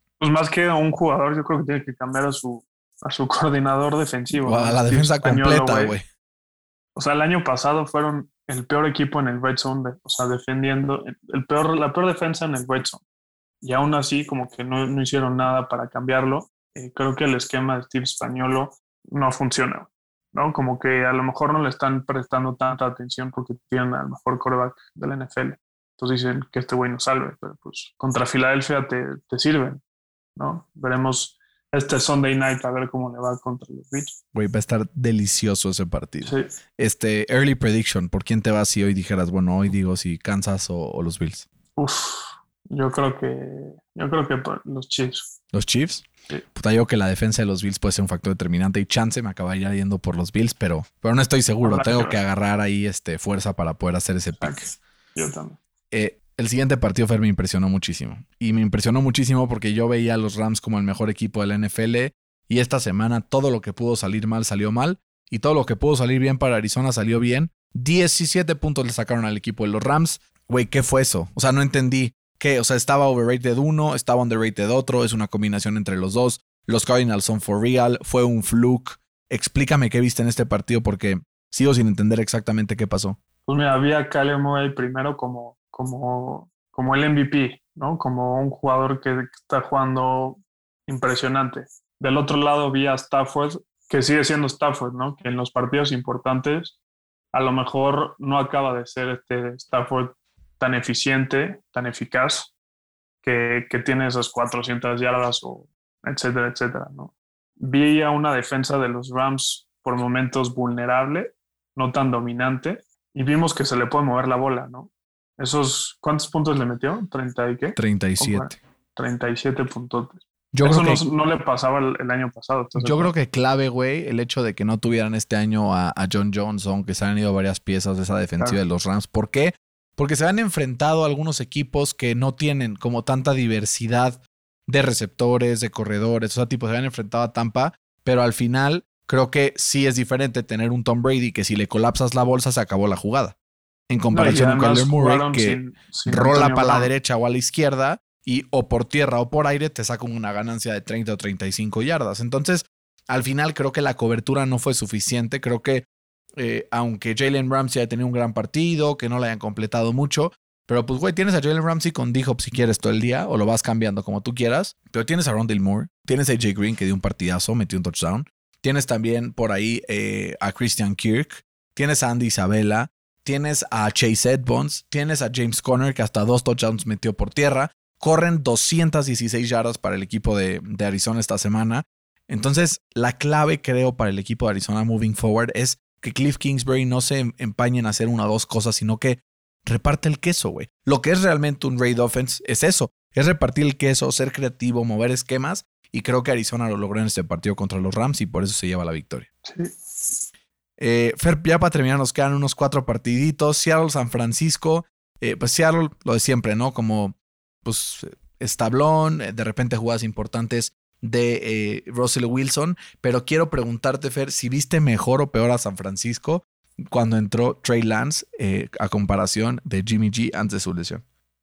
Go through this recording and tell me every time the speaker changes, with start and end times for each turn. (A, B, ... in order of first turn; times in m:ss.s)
0:00.2-0:06.0 A
0:04.3-0:06.0 B
0:07.0-0:13.0 A
0:13.6-0:29.8 A
0:30.4-0:34.2 A
0:34.3-0:41.5 B
0:36.2-0:36.5 A
0:41.8-0:45.3 A
0:45.5-0:54.6 B
0:51.6-0:52.2 A
0:54.4-0:55.6 A
0:55.9-1:23.2 B
1:23.4-1:36.8 A
1:37.3-1:42.5 A
1:43.2-2:03.1 A
1:57.8-1:58.6 B
2:00.5-2:01.0 B
2:02.8-2:23.4 B
2:23.9-2:35.8 B
2:24.1-2:26.9 A
2:36.4-3:19.3 B
3:19.4-3:20.2 A
3:20.8-3:41.0 B